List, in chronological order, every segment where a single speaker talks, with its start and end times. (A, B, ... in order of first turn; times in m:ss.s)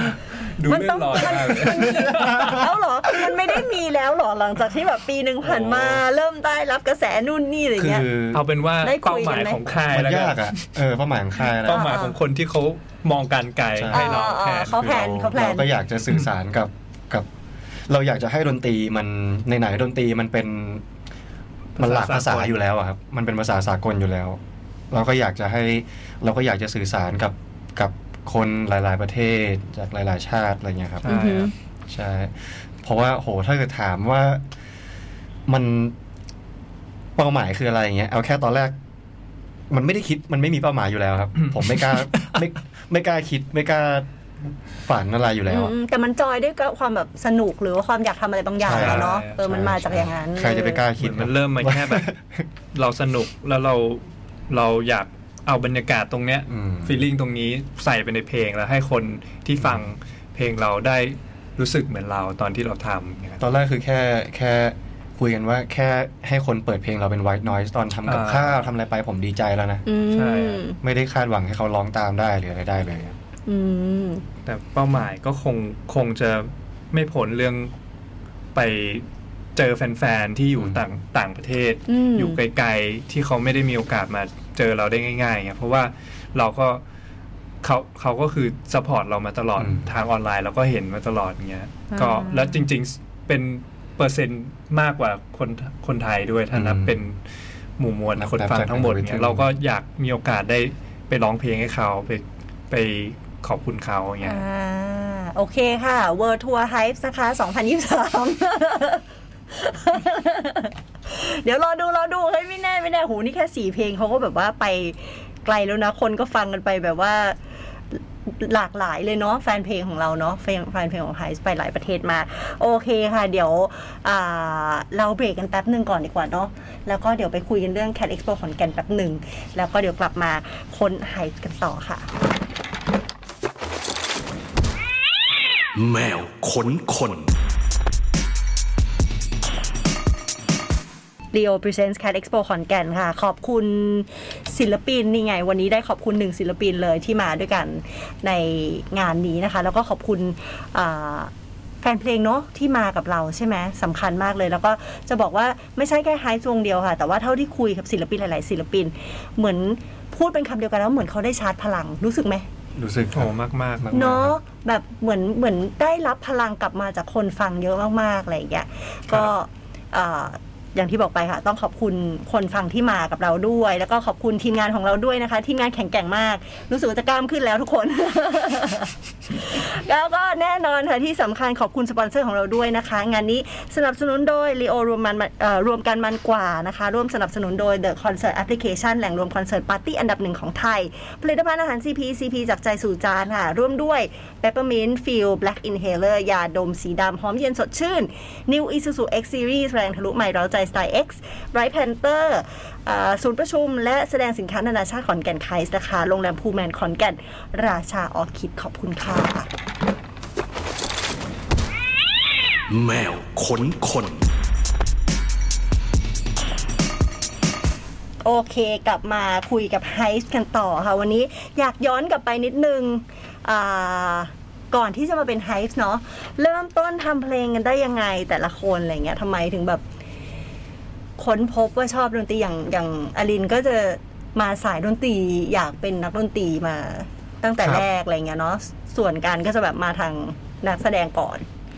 0:00.3-0:02.7 A
0:00.7-0:08.1 B
0:01.7-0:02.6 C
0:05.4-0:06.0 A
0:07.8-0:08.4 C
0:08.3-0:10.7 A
0:08.8-0:09.6 B
0:09.8-0:12.0 C
0:11.4-0:14.8 A
0:11.6-0:12.2 B
0:13.7-0:17.3 C
0:13.9-0:15.7 B
0:17.9-0:20.8 C
0:21.8-0:22.6 A
0:21.8-0:24.4 C
0:24.9-0:31.0 C
0:31.0-0:31.5 A
0:31.1-0:31.5 B
0:31.9-0:34.4 C
0:35.5-0:35.9 C
0:37.2-0:38.7 C
0:39.7-0:44.1 C
0:41.4-0:42.4 A
0:44.8-0:45.7 C
0:45.5-0:50.8 B
0:48.6-0:52.4 C
0:48.7-0:49.4 A
0:51.0-0:52.1 A
0:52.7-1:03.4 A
0:56.5-0:57.0 C
0:59.6-0:59.9 C
1:03.4-1:09.8 C
1:08.0-1:08.6 A
1:09.8-1:10.8 B
1:10.1-1:10.6 A
1:10.8-1:13.2 C
1:13.5-1:14.2 B
1:14.4-1:17.7 A
1:18.5-1:26.8 A
1:21.9-1:22.4 B
1:27.6-1:37.2 A
1:29.6-1:29.9 C
1:31.9-1:32.6 B
1:36.5-1:37.0 C
1:37.8-1:44.4 A
1:38.2-1:39.5 C
1:44.2-1:57.4 B
1:57.9-2:12.0 B
2:15.7-2:17.3 D
2:21.3-2:31.3 B
2:31.8-2:42.5 B
2:42.7-2:44.4 C
2:43.1-2:43.9 A
2:43.9-3:29.5 B
3:32.7-3:34.3 D
3:38.2-3:49.8 B
3:51.2-4:01.4 B